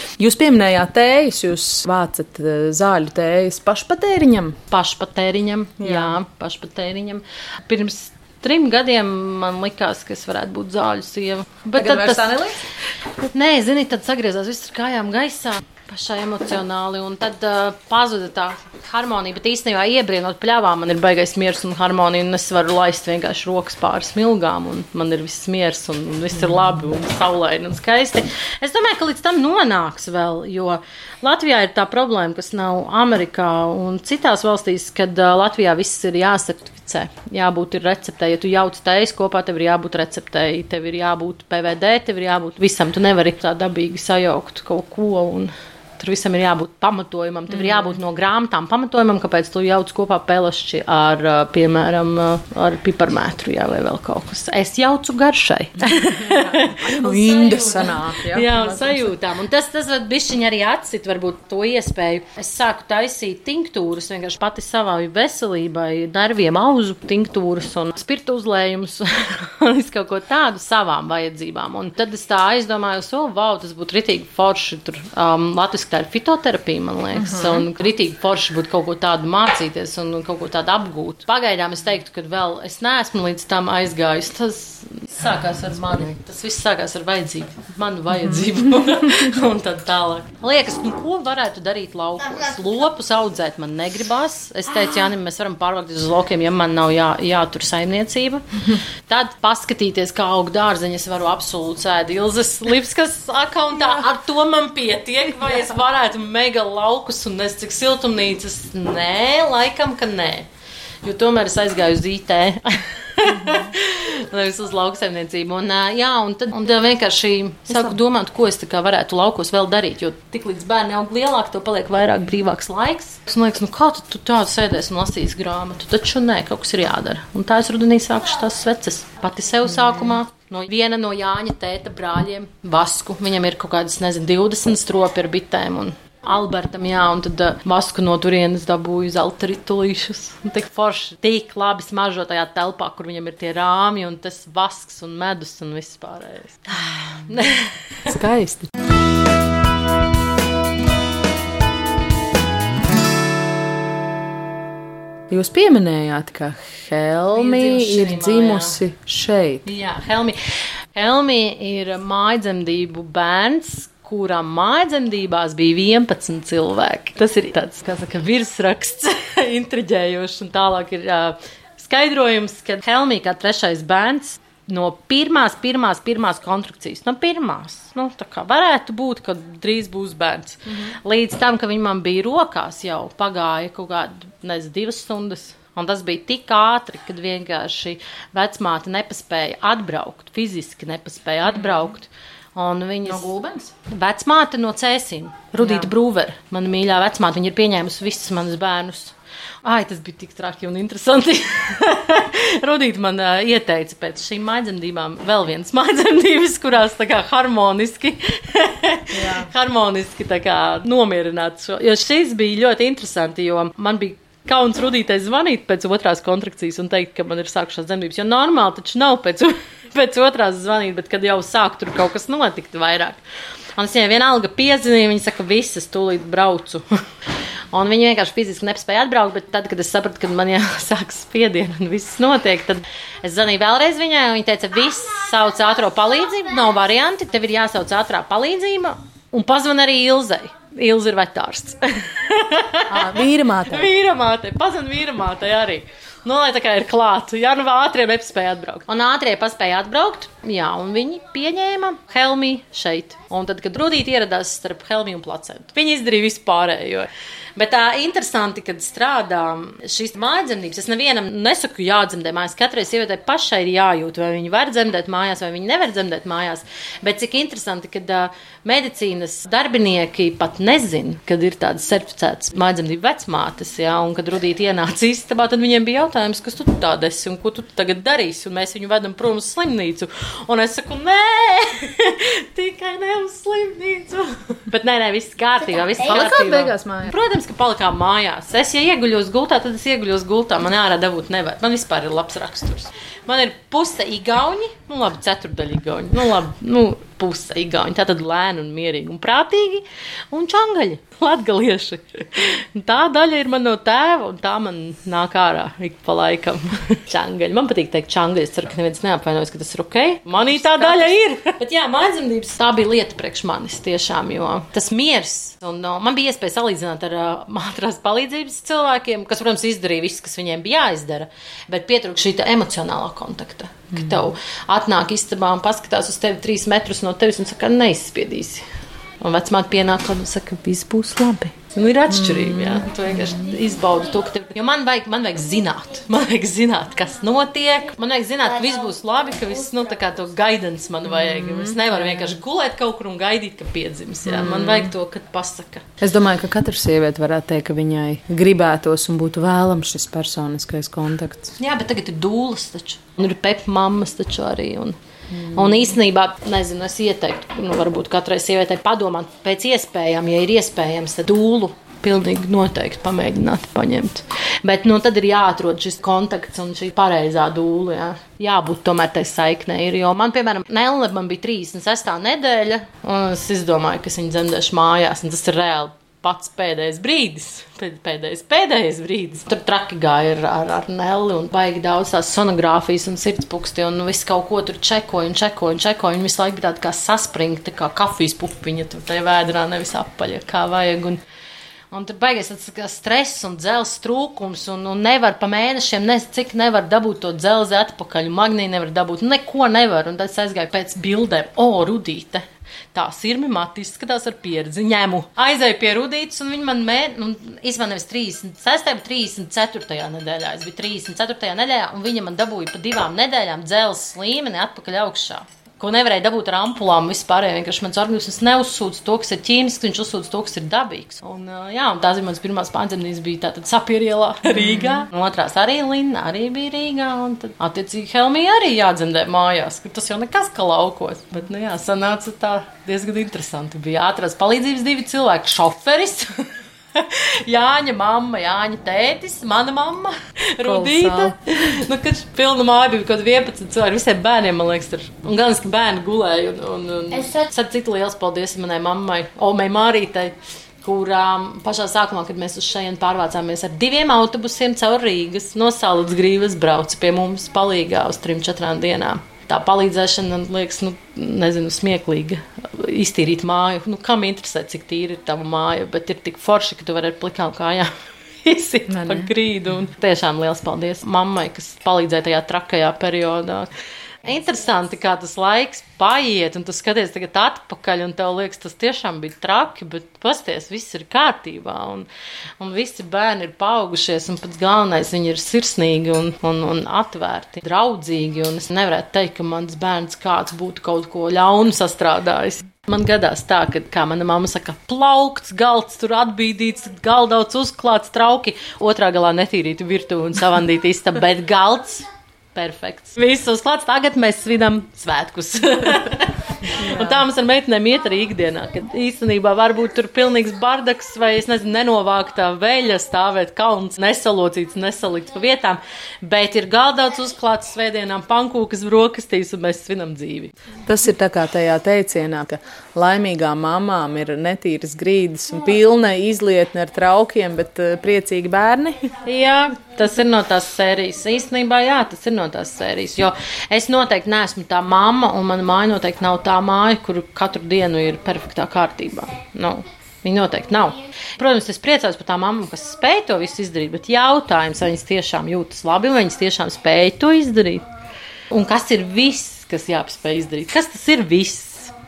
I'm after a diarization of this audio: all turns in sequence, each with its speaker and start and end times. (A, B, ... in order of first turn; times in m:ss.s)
0:00.2-0:04.6 A
0:04.7-0:12.4 B
0:05.8-0:06.2 A
0:11.8-0:12.6 A
0:13.3-1:38.4 B
0:47.5-0:47.9 A
0:55.8-0:59.2 A
1:17.1-1:17.7 A
1:28.2-1:29.4 A
1:39.1-1:50.5 B
1:51.0-2:28.1 B
1:53.2-1:53.7 A
1:57.7-1:58.0 A
2:09.7-2:10.2 A
2:28.0-2:28.7 A
2:35.3-2:39.7 A
2:37.3-2:38.8 B
2:39.6-3:43.2 B
3:00.7-3:00.9 A
3:11.5-3:11.8 A
3:13.0-3:13.7 A
3:15.6-3:15.9 A
3:29.1-3:29.5 A
3:43.8-3:46.9 B
3:47.7-5:28.6 B
4:02.9-4:03.9 A
4:46.0-4:47.1 A
5:10.4-5:11.2 A
5:23.9-5:24.2 A
5:29.2-5:45.8 B
5:32.1-5:33.5 A
5:41.0-5:42.4 A
5:44.2-5:44.9 A
5:46.0-5:51.5 A
5:51.6-5:55.0 B
5:55.3-5:56.0 A
5:55.5-6:31.2 B
6:31.9-7:47.9 B
7:04.5-7:05.0 A
7:20.6-7:21.8 A
7:48.4-7:53.7 B
7:48.9-7:49.3 A
7:54.2-8:02.1 B
8:02.6-8:40.5 B
8:26.8-8:27.3 A
8:40.8-8:49.1 A
8:49.2-9:07.8 B
9:08.5-9:11.9 B